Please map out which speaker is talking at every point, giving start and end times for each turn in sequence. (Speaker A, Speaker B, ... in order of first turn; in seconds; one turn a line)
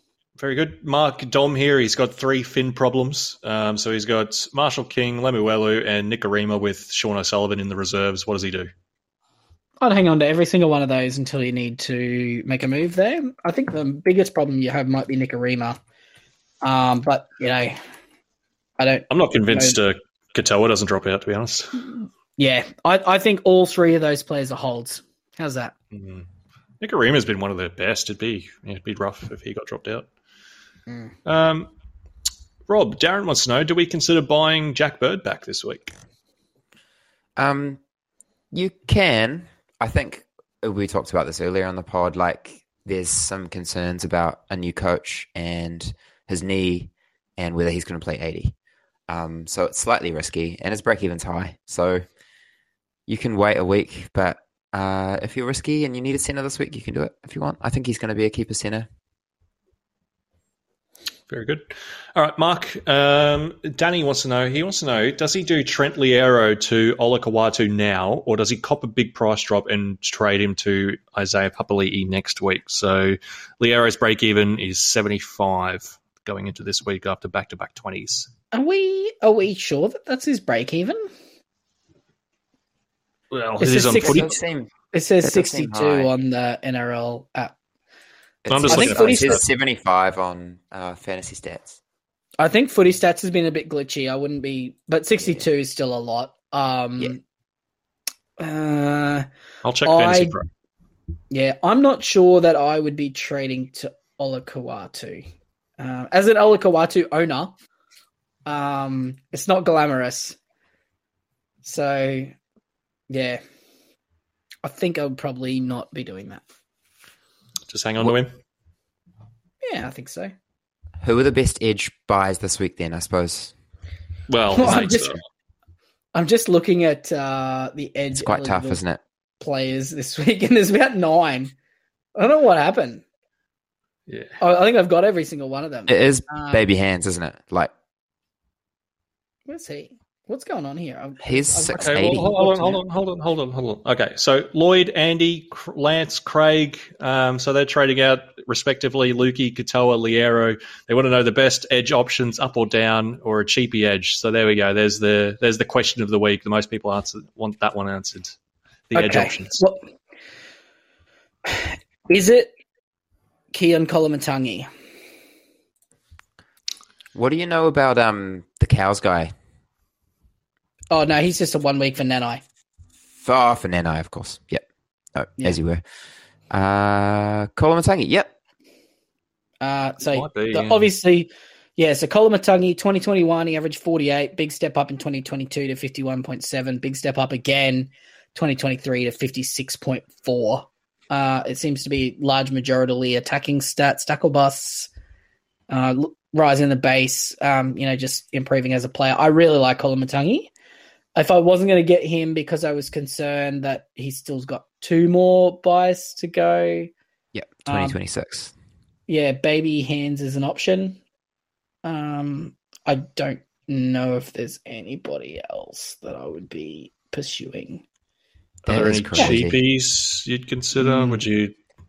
Speaker A: 0.4-8.7
Speaker B: 9.8-15.8
Speaker B: 16.6-17.8
Speaker B: 18.8-19.8
Speaker A: 19.1-21.8
Speaker B: 22.4-25.7
Speaker A: 25.9-26.3
Speaker A: 26.8-30.1
Speaker B: 30.9-31.1
Speaker A: 31.2-31.7
Speaker A: 32.7-35.9
Speaker C: 37.4-37.8
Speaker C: 38.5-48.5
Speaker C: 49.1-52.0
Speaker C: 53.1-58.9
Speaker A: 61.3-78.3
Speaker B: 78.5-81.0
Speaker A: 83.3-84.3
Speaker B: 83.6-84.4
Speaker C: 84.0-86.1
Speaker B: 84.9-87.5
Speaker C: 88.4-91.8
Speaker A: 88.5-89.4
Speaker B: 88.5-89.4
Speaker B: 92.4-97.2
Speaker B: 98.4-99.3
Speaker A: 99.6-100.5
Speaker B: 99.8-100.3
Speaker B: 101.3-105.2
Speaker B: 105.8-107.5
Speaker B: 108.5-110.4
Speaker B: 111.6-112.3
Speaker B: 113.1-113.4
Speaker B: 114.6-116.4
Speaker A: 117.7-118.3
Speaker B: 119.6-120.3
Speaker C: 121.0-123.5
Speaker A: 124.3-125.2
Speaker B: 124.5-125.2
Speaker B: 126.1-128.8
Speaker C: 128.2-129.0
Speaker B: 129.4-131.5
Speaker B: 132.2-133.0
Speaker A: 134.1-134.4
Speaker B: 134.4-136.6
Speaker C: 135.9-137.7
Speaker B: 139.5-142.8
Speaker C: 141.2-142.3
Speaker A: 141.8-158.3
Speaker A: 158.9-159.6
Speaker B: 158.9-159.8
Speaker B: 161.4-162.5
Speaker B: 163.5-164.7
Speaker C: 167.1-169.3
Speaker B: 170.9-172.4
Speaker C: 173.2-175.8
Speaker C: 176.5-178.3
Speaker B: 179.6-194.9
Speaker A: 180.1-180.9
Speaker B: 195.7-200.5
Speaker B: 201.1-206.9
Speaker C: 207.3-208.5
Speaker B: 207.7-208.0
Speaker B: 209.1-211.0
Speaker B: 211.8-217.8
Speaker A: 218.6-221.5
Speaker C: 218.7-219.6
Speaker B: 220.8-221.2